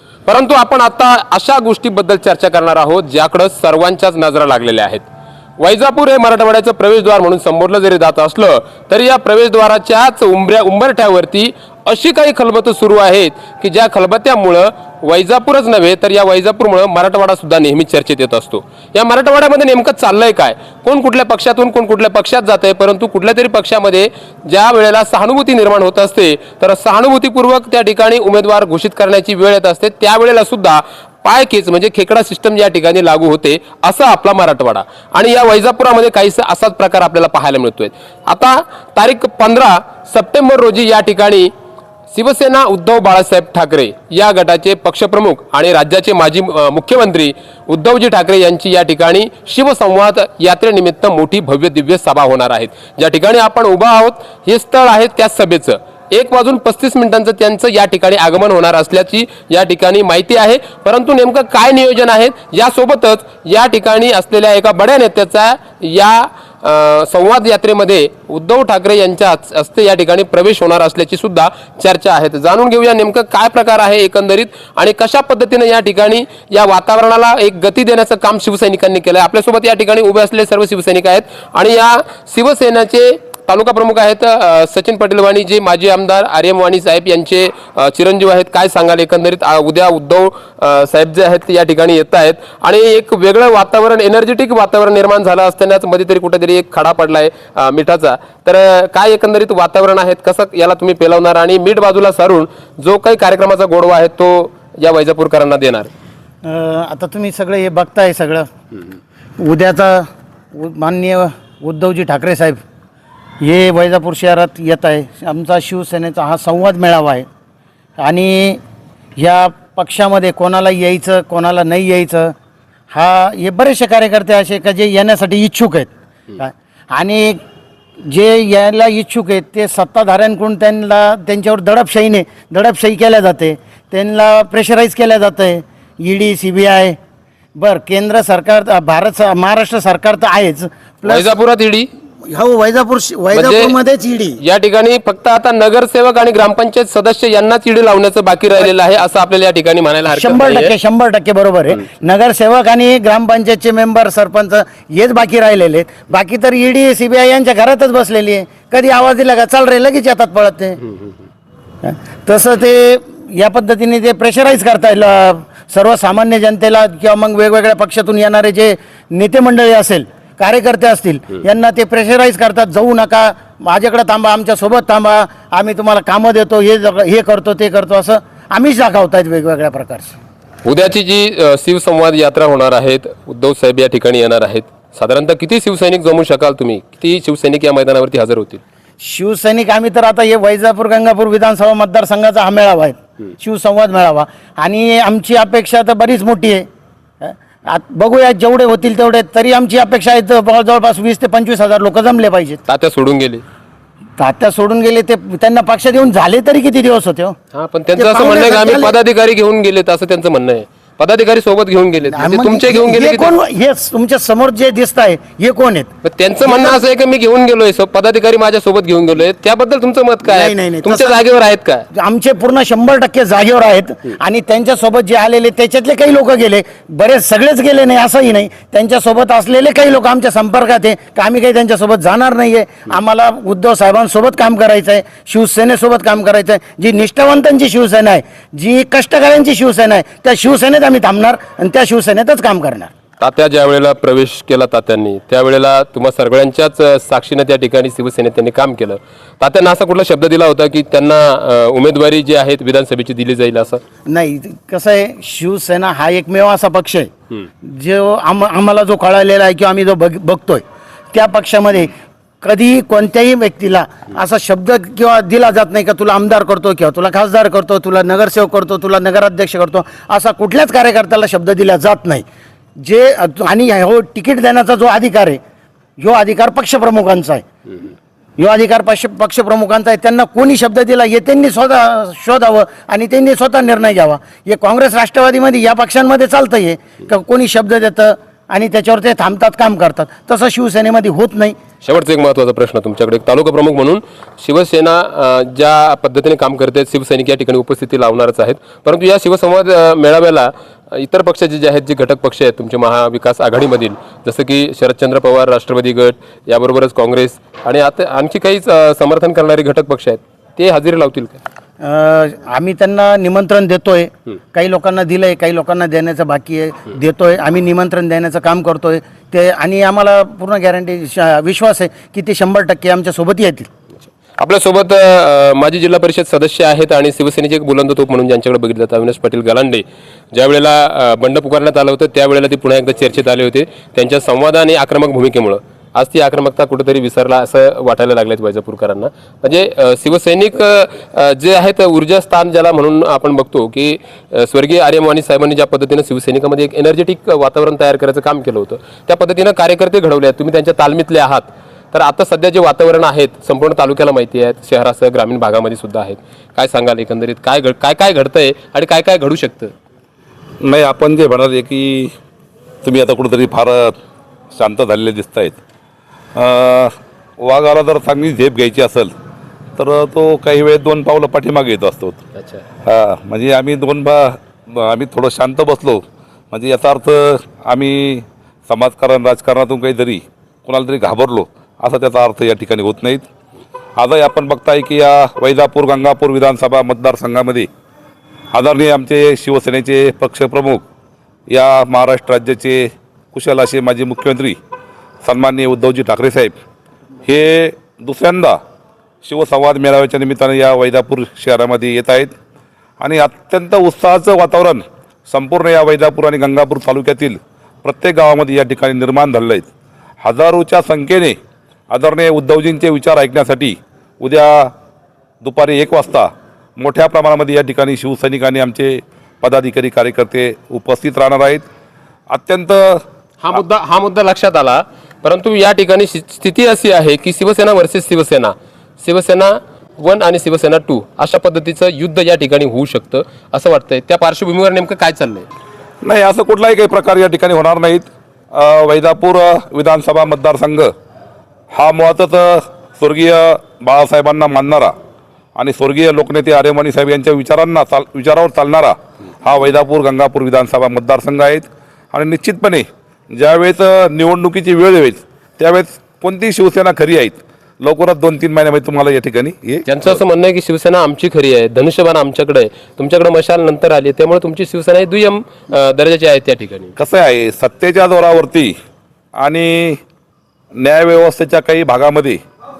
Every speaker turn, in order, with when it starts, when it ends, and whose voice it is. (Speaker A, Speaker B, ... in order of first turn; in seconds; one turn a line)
Speaker A: 0.2-5.0
Speaker A: 5.6-41.5
Speaker A: 42.1-105.9
Speaker B: 106.4-108.5
Speaker B: 109.4-112.6
Speaker B: 113.4-117.2
Speaker B: 118.0-118.6
Speaker B: 119.2-122.3
Speaker B: 122.9-127.4
Speaker B: 128.1-137.0
Speaker B: 137.6-141.3
Speaker A: 141.0-141.9
Speaker B: 142.2-144.4
Speaker A: 143.3-143.7
Speaker A: 144.4-150.7
Speaker B: 150.1-160.9
Speaker B: 161.8-180.1
Speaker A: 180.6-188.6
Speaker B: 189.0-196.7
Speaker B: 197.2-202.6
Speaker A: 202.7-203.4
Speaker B: 204.2-207.3
Speaker A: 207.5-213.3
Speaker B: 207.9-208.9
Speaker B: 212.1-215.9
Speaker A: 216.0-221.8
Speaker B: 216.4-216.8
Speaker B: 220.2-221.2
Speaker B: 221.9-242.9
Speaker A: 243.2-253.8
Speaker B: 254.1-257.1
Speaker B: 257.6-272.2
Speaker B: 272.8-275.4
Speaker B: 276.0-277.4
Speaker B: 278.4-291.6
Speaker A: 291.8-311.4
Speaker B: 311.8-323.7
Speaker A: 324.4-359.7
Speaker C: 360.6-362.1
Speaker C: 362.8-363.9
Speaker C: 364.5-365.6
Speaker C: 366.3-369.1
Speaker C: 369.8-372.2
Speaker A: 372.4-372.6
Speaker C: 372.8-383.2
Speaker C: 384.0-387.7
Speaker C: 388.5-390.8
Speaker C: 391.5-394.6
Speaker C: 395.2-396.5
Speaker C: 397.2-398.6
Speaker C: 399.2-402.3
Speaker C: 403.0-409.7
Speaker C: 410.2-411.4
Speaker C: 411.9-414.7
Speaker C: 415.4-421.6
Speaker C: 422.3-423.0
Speaker A: 423.4-435.5
Speaker C: 436.0-440.9
Speaker C: 441.7-444.9
Speaker C: 445.5-459.8
Speaker A: 459.9-466.9
Speaker C: 467.0-468.7
Speaker C: 469.4-470.0
Speaker C: 470.8-472.4